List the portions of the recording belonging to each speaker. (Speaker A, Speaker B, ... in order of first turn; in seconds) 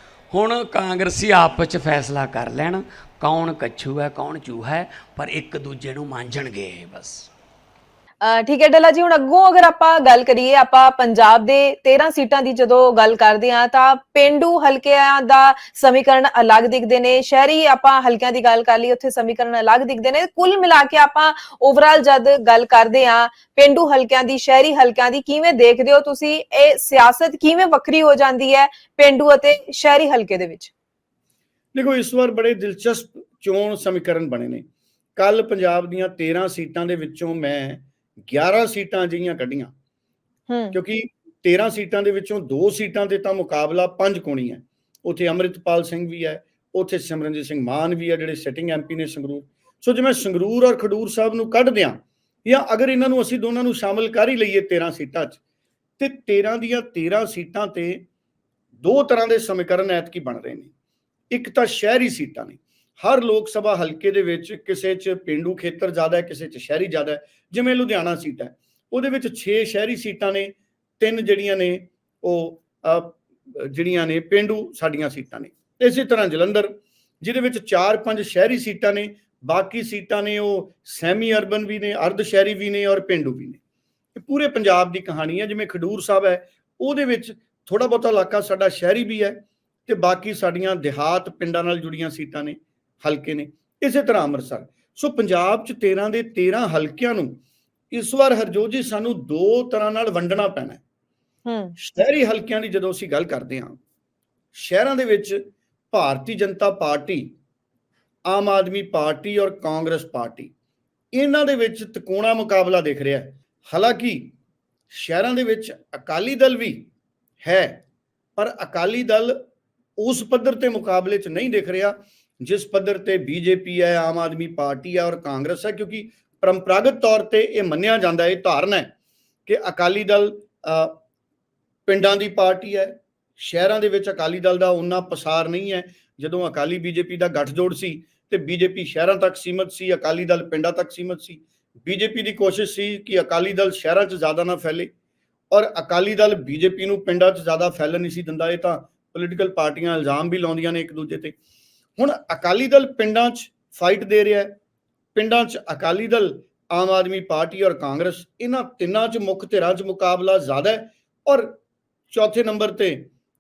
Speaker A: 0.3-7.3
Speaker B: 8.2-30.7, 40.5-40.8, 101.5-101.8
Speaker C: 31.7-34.6, 35.2-39.7, 40.7-55.4, 56.0-58.0, 58.8-60.7, 61.3-83.6, 84.1-97.4, 97.9-100.8, 101.8-103.8, 104.5-105.4, 105.9-107.3, 108.3-110.5, 111.1-114.3, 114.9-116.9, 117.4-117.8, 118.4-119.4, 120.0-128.9, 129.5-131.0, 131.9-144.9, 145.5-151.3, 152.0-154.6, 155.2-161.6, 162.1-163.1